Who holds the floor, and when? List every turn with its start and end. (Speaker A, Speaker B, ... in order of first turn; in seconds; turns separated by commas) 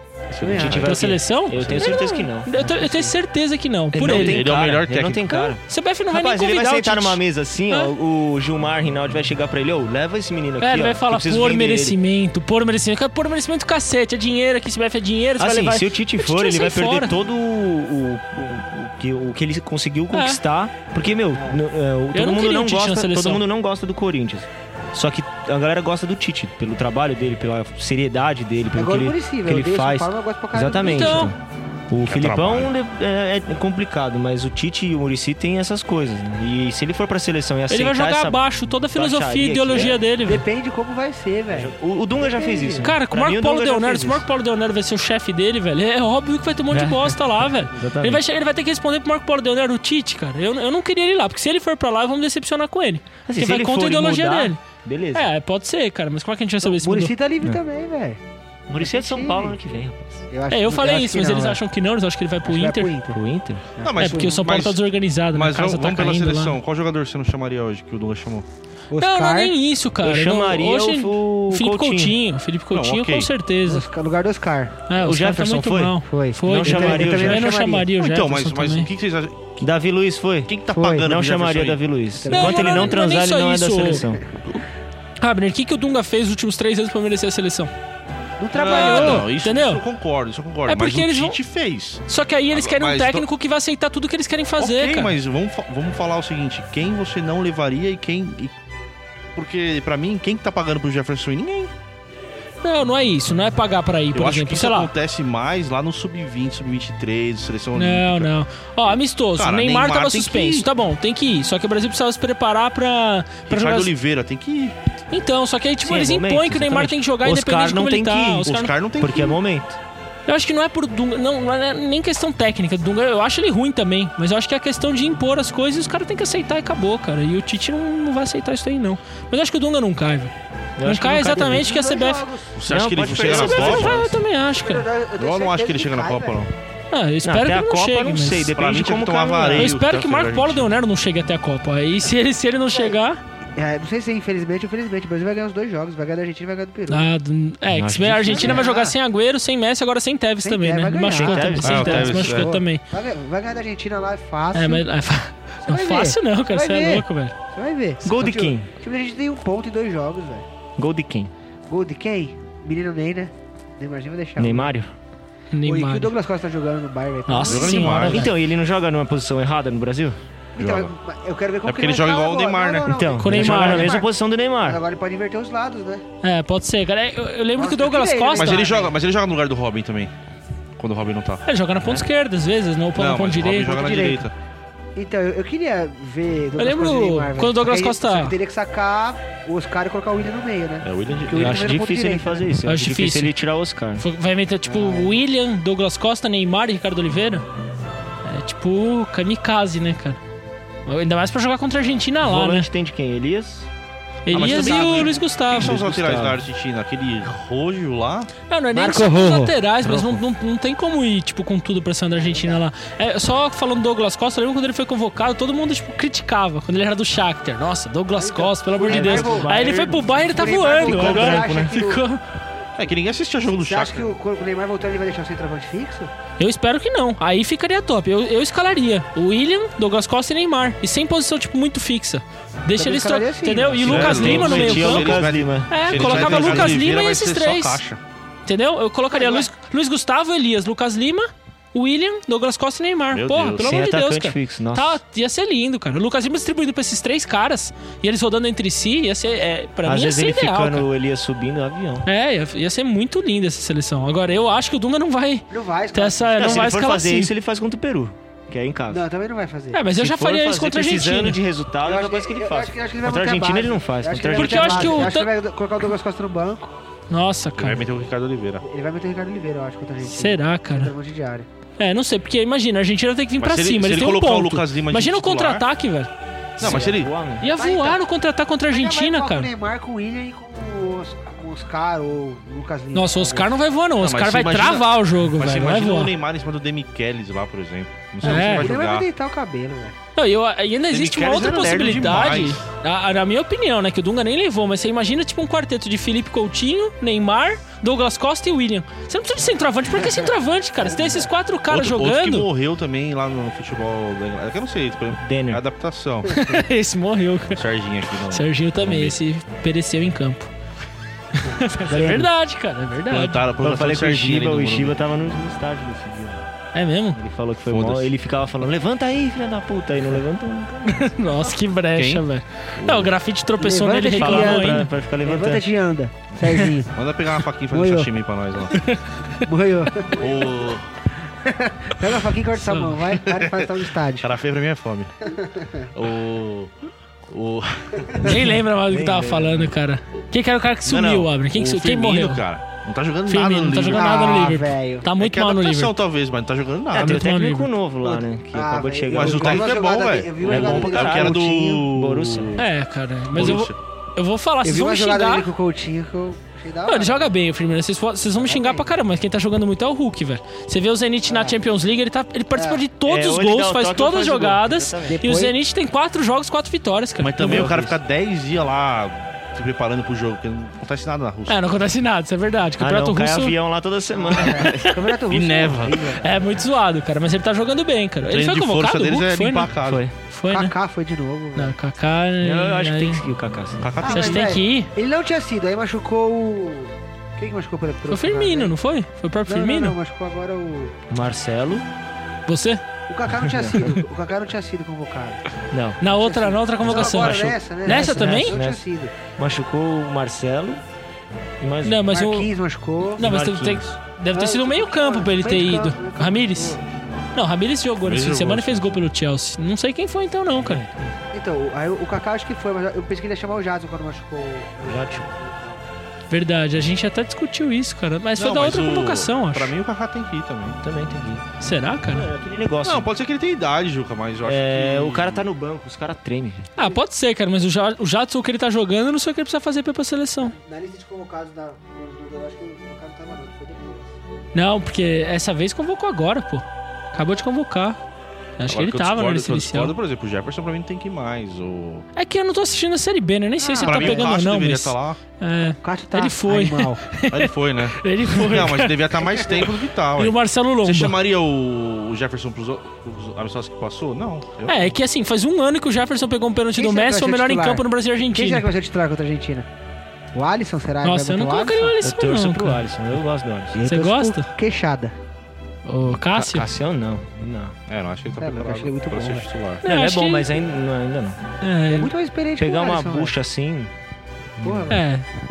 Speaker A: 0.3-0.9, Speaker B: 0.3-1.1, Speaker C: 0.5-2.5, Speaker D: 0.8-4.5, Speaker B: 1.6-1.9, Speaker A: 2.6-3.1, Speaker C: 3.9-12.0, Speaker B: 4.0-5.5, Speaker D: 5.5-7.9, Speaker D: 10.6-17.1, Speaker C: 15.4-31.4, Speaker D: 20.1-20.4, Speaker D: 22.1-23.4, Speaker A: 28.8-31.3, Speaker D: 30.8-31.3, Speaker C: 31.9-38.4, Speaker B: 32.1-32.7, Speaker D: 37.7-40.4, Speaker C: 38.9-40.0, Speaker A: 40.2-42.9, Speaker C: 41.5-44.2, Speaker D: 42.8-54.6, Speaker C: 46.7-47.2, Speaker C: 47.7-48.2, Speaker C: 53.3-55.3, Speaker D: 55.1-57.1, Speaker A: 56.6-58.2, Speaker C: 58.7-60.2, Speaker A: 58.8-59.6, Speaker A: 60.3-61.6, Speaker D: 60.5-62.9, Speaker A: 62.4-63.2, Speaker C: 63.1-63.6, Speaker A: 63.8-64.4, Speaker B: 63.8-64.8, Speaker D: 64.0-66.6, Speaker B: 65.3-68.5, Speaker A: 68.9-69.5, Speaker D: 69.0-73.8, Speaker C: 70.0-72.1, Speaker B: 72.7-73.3, Speaker A: 73.7-74.8, Speaker D: 74.9-78.9, Speaker C: 75.0-77.5, Speaker A: 76.1-77.9, Speaker B: 78.0-79.6, Speaker C: 79.6-84.2, Speaker B: 80.5-81.8, Speaker A: 82.2-83.0, Speaker D: 82.3-84.0, Speaker D: 85.2-87.7, Speaker A: 88.4-89.3, Speaker B: 88.5-93.3, Speaker D: 88.6-89.8, Speaker D: 90.7-91.4, Speaker D: 92.1-95.1, Speaker B: 94.6-98.5, Speaker B: 99.3-101.7, Speaker D: 102.6-104.9, Speaker B: 104.1-108.3, Speaker D: 107.8-113.9, Speaker B: 109.4-110.7, Speaker B: 113.5-114.8, Speaker D: 115.1-118.7, Speaker C: 115.8-119.8, Speaker B: 118.4-119.4, Speaker D: 120.3-132.3, Speaker C: 130.8-131.7, Speaker A: 131.3-132.5, Speaker B: 132.6-134.2, Speaker C: 132.7-134.1, Speaker D: 133.2-134.8, Speaker A: 134.5-136.4, Speaker B: 135.2-136.5, Speaker D: 136.9-138.5, Speaker C: 137.2-139.7, Speaker B: 138.6-140.7, Speaker D: 139.6-143.2, Speaker A: 143.6-147.1, Speaker D: 146.9-152.8, Speaker C: 147.7-148.6, Speaker A: 148.3-148.9, Speaker A: 150.4-154.9, Speaker C: 151.1-152.2, Speaker B: 151.6-152.6, Speaker D: 154.5-157.3, Speaker A: 155.7-160.4, Speaker C: 158.0-158.7, Speaker C: 160.8-161.3, Speaker A: 161.7-164.7, Speaker C: 164.4-164.9, Speaker D: 165.5-166.1, Speaker A: 165.6-168.3, Speaker C: 167.3-170.2, Speaker B: 167.4-168.3, Speaker B: 170.6-170.9, Speaker A: 170.6-174.1, Speaker B: 171.6-172.9, Speaker C: 172.9-174.8, Speaker D: 173.2-174.0, Speaker A: 174.6-176.0, Speaker D: 176.2-178.7, Speaker A: 177.6-178.9, Speaker B: 178.3-180.1, Speaker B: 180.8-181.4, Speaker D: 181.4-183.8, Speaker B: 182.9-184.3, Speaker A: 183.6-184.3, Speaker A: 184.9-192.4, Speaker D: 186.6-188.4, Speaker B: 190.8-191.6, Speaker C: 191.3-194.1, Speaker D: 192.7-193.3, Speaker D: 194.0-197.5, Speaker A: 194.6-195.2, Speaker D: 198.2-200.2, Speaker D: 200.9-202.7, Speaker C: 202.2-203.7, Speaker D: 204.3-205.8, Speaker B: 204.3-208.3, Speaker C: 204.3-206.4, Speaker A: 204.6-205.1, Speaker D: 208.5-222.2, Speaker A: 208.7-209.6, Speaker C: 209.8-210.2, Speaker A: 212.1-212.6, Speaker A: 218.2-222.0, Speaker C: 218.9-221.7, Speaker B: 222.8-224.1, Speaker A: 223.5-226.1, Speaker D: 226.4-237.8, Speaker A: 232.8-234.1, Speaker B: 233.8-238.0, Speaker C: 233.9-236.8, Speaker D: 238.4-250.9, Speaker A: 239.1-239.5, Speaker B: 243.1-243.7, Speaker C: 243.6-245.0, Speaker C: 249.8-252.1, Speaker D: 252.1-257.3, Speaker A: 255.5-256.7, Speaker C: 256.4-259.0, Speaker A: 258.9-259.8, Speaker D: 259.7-261.4, Speaker C: 259.9-265.1, Speaker A: 261.8-266.7, Speaker D: 264.3-265.3, Speaker D: 267.1-267.8, Speaker B: 267.6-268.6, Speaker A: 268.6-271.5, Speaker D: 270.0-270.9, Speaker D: 271.8-276.9, Speaker B: 273.4-275.6, Speaker B: 276.6-277.1, Speaker C: 276.6-277.5, Speaker D: 277.4-279.5, Speaker A: 277.6-278.0, Speaker A: 278.7-283.5, Speaker D: 282.9-286.1, Speaker B: 284.0-289.1, Speaker A: 288.2-289.9, Speaker D: 288.2-288.7, Speaker D: 290.1-302.5, Speaker B: 290.9-292.6, Speaker A: 299.9-301.3, Speaker B: 301.7-306.3, Speaker C: 305.2-305.6, Speaker D: 306.3-307.6, Speaker B: 307.5-309.2, Speaker D: 308.3-310.5, Speaker D: 311.4-313.4, Speaker B: 313.1-315.0, Speaker C: 313.6-316.4, Speaker D: 316.7-317.2, Speaker C: 317.1-321.1, Speaker B: 317.7-318.1, Speaker D: 320.9-324.9, Speaker B: 321.9-322.2, Speaker B: 322.8-323.1, Speaker A: 323.6-326.9, Speaker C: 324.2-325.6, Speaker B: 326.9-328.8, Speaker A: 327.7-328.1, Speaker D: 328.7-329.4, Speaker A: 329.4-330.5, Speaker B: 330.1-330.9, Speaker A: 331.4-334.3, Speaker D: 332.6-333.1, Speaker B: 333.2-333.7, Speaker B: 334.2-335.3, Speaker A: 335.3-335.9, Speaker B: 335.9-336.7, Speaker B: 337.3-338.4, Speaker D: 338.2-342.4, Speaker C: 338.9-339.7, Speaker B: 340.9-344.4, Speaker D: 343.3-345.9, Speaker A: 343.9-345.1, Speaker B: 345.2-347.3, Speaker C: 346.9-349.7, Speaker D: 346.9-347.7, Speaker A: 348.0-351.9, Speaker B: 349.1-352.6, Speaker C: 350.4-352.6, Speaker D: 352.6-355.5, Speaker B: 353.3-353.7, Speaker A: 354.6-357.3, Speaker D: 356.9-367.7, Speaker A: 358.4-358.9, Speaker A: 361.3-361.6, Speaker A: 362.6-362.8, Speaker C: 363.1-365.2, Speaker A: 365.1-365.6, Speaker B: 367.2-371.6, Speaker C: 367.4-368.0, Speaker D: 371.5-373.6, Speaker C: 372.8-374.8, Speaker A: 374.1-376.4, Speaker D: 374.4-375.1, Speaker B: 375.3-376.1, Speaker D: 376.2-380.7, Speaker B: 378.2-380.0, Speaker C: 379.9-380.1, Speaker A: 380.5-381.7, Speaker D: 381.6-383.2, Speaker C: 382.4-383.9, Speaker B: 383.8-384.6, Speaker A: 384.0-388.8, Speaker D: 384.1-384.9, Speaker D: 388.1-389.9, Speaker A: 389.4-390.9, Speaker C: 391.1-391.9, Speaker D: 392.5-392.8, Speaker A: 393.1-395.4, Speaker C: 393.4-393.8, Speaker C: 395.7-396.0, Speaker D: 396.0-398.6, Speaker A: 396.1-399.1, Speaker C: 396.8-398.8, Speaker C: 399.4-400.8, Speaker C: 401.6-402.1, Speaker D: 401.8-402.5, Speaker A: 402.1-403.3, Speaker D: 403.2-406.8, Speaker C: 403.2-403.9, Speaker A: 404.3-406.8, Speaker D: 407.4-410.8, Speaker B: 408.0-409.1, Speaker C: 410.6-411.1, Speaker A: 411.3-415.8, Speaker C: 414.8-415.3, Speaker D: 416.3-419.7, Speaker B: 418.4-420.8, Speaker C: 420.8-421.4, Speaker D: 421.6-422.3, Speaker C: 422.1-423.1, Speaker B: 422.8-425.5, Speaker C: 424.4-426.7, Speaker D: 426.8-430.6, Speaker A: 430.5-434.2, Speaker D: 434.5-438.0, Speaker D: 438.6-440.0, Speaker B: 438.7-442.1, Speaker D: 442.1-449.6, Speaker A: 443.6-444.3, Speaker B: 443.8-445.2, Speaker A: 445.8-447.0, Speaker B: 447.3-454.9, Speaker D: 450.2-451.2, Speaker D: 454.7-458.6, Speaker A: 456.8-459.7, Speaker A: 460.4-461.9, Speaker D: 461.0-462.8, Speaker C: 462.0-463.8, Speaker A: 463.7-465.1, Speaker D: 463.9-464.4, Speaker D: 465.9-466.7, Speaker C: 466.2-467.7, Speaker B: 467.9-469.8, Speaker A: 468.4-469.5, Speaker D: 469.8-470.6, Speaker C: 469.8-471.4, Speaker D: 471.6-472.1, Speaker A: 471.9-473.3, Speaker C: 472.6-473.9, Speaker C: 474.6-474.9, Speaker A: 474.6-475.0, Speaker D: 474.9-475.3